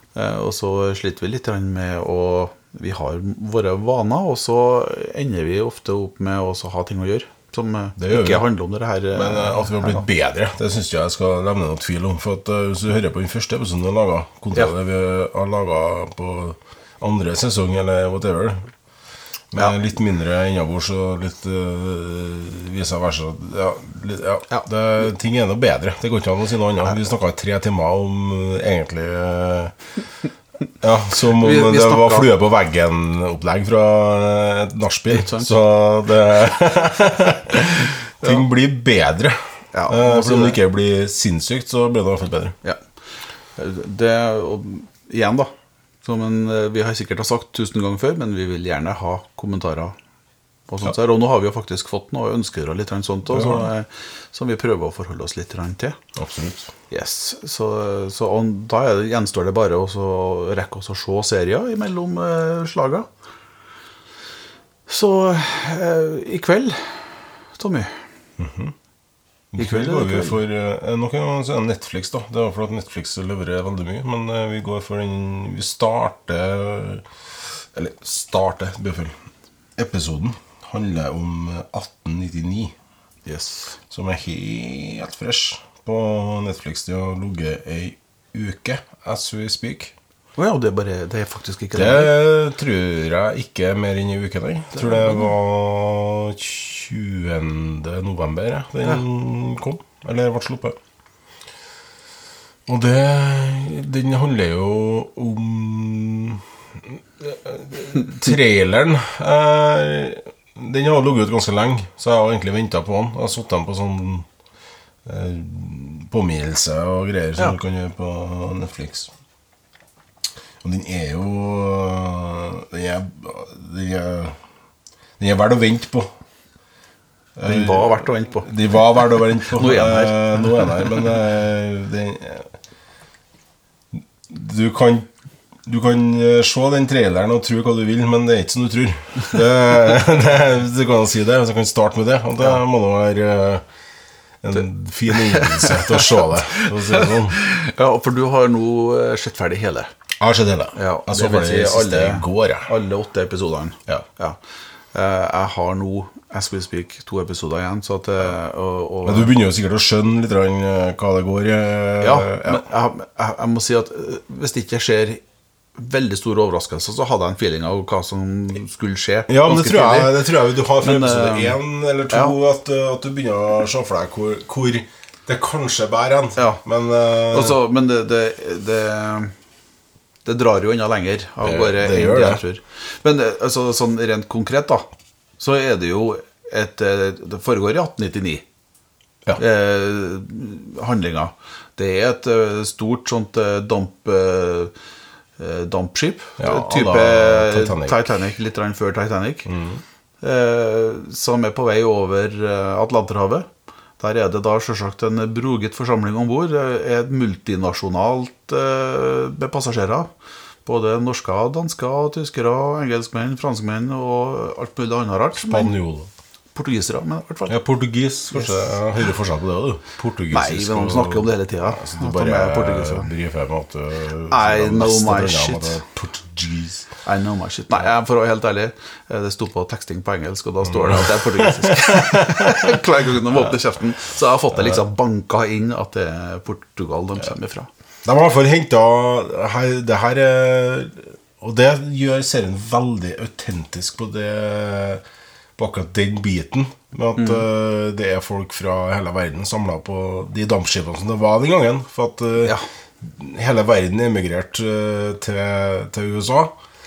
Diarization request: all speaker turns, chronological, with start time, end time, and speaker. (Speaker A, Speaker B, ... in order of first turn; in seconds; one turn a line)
Speaker A: 0.1-10.0
Speaker B: 8.0-8.4
Speaker B: 9.1-18.7
Speaker B: 19.5-29.7
Speaker B: 30.8-42.5
Speaker A: 31.3-32.3
Speaker A: 35.1-35.5
Speaker A: 39.7-40.6
Speaker A: 43.5-50.0
Speaker A: 50.7-56.0
Speaker B: 53.3-53.7
Speaker B: 56.1-56.7
Speaker A: 56.9-63.1
Speaker A: 64.9-68.0
Speaker B: 68.4-68.7
Speaker B: 69.5-79.2
Speaker A: 69.6-70.4
Speaker B: 79.8-82.7
Speaker A: 83.2-83.8
Speaker B: 83.9-89.9
Speaker A: 90.3-92.1
Speaker B: 91.7-100.8
Speaker A: 94.8-95.2
Speaker B: 102.7-114.3
Speaker B: 115.0-119.1
Speaker B: 120.6-124.4
Speaker B: 125.2-126.1
Speaker B: 127.4-132.5
Speaker A: 127.4-128.8
Speaker A: 129.4-130.9
Speaker B: 133.9-135.1
Speaker B: 135.6-143.6
Speaker B: 144.4-147.4
Speaker A: 145.1-149.9
Speaker B: 150.2-152.7
Speaker A: 150.7-154.4
Speaker A: 154.9-159.3
Speaker B: 159.0-162.7
Speaker A: 162.0-165.2
Speaker A: 165.8-170.2
Speaker B: 169.3-177.6
Speaker A: 170.8-171.6
Speaker A: 172.1-172.3
Speaker A: 177.3-179.3
Speaker A: 180.2-184.8
Speaker B: 181.4-182.4
Speaker A: 185.4-188.4
Speaker A: 189.4-194.7
Speaker A: 195.4-199.5
Speaker B: 196.4-198.1
Speaker B: 199.4-199.8
Speaker A: 200.2-203.5
Speaker A: 204.0-210.1
Speaker A: 210.6-215.7
Speaker B: 215.3-216.1
Speaker A: 216.5-217.6
Speaker B: 217.5-226.9
Speaker A: 218.3-218.6
Speaker A: 220.3-223.1
Speaker A: 224.3-225.8
Speaker A: 227.0-237.7
Speaker B: 230.6-232.8
Speaker B: 234.5-234.8
Speaker B: 238.0-245.0
Speaker B: 245.6-256.6
Speaker A: 247.2-247.4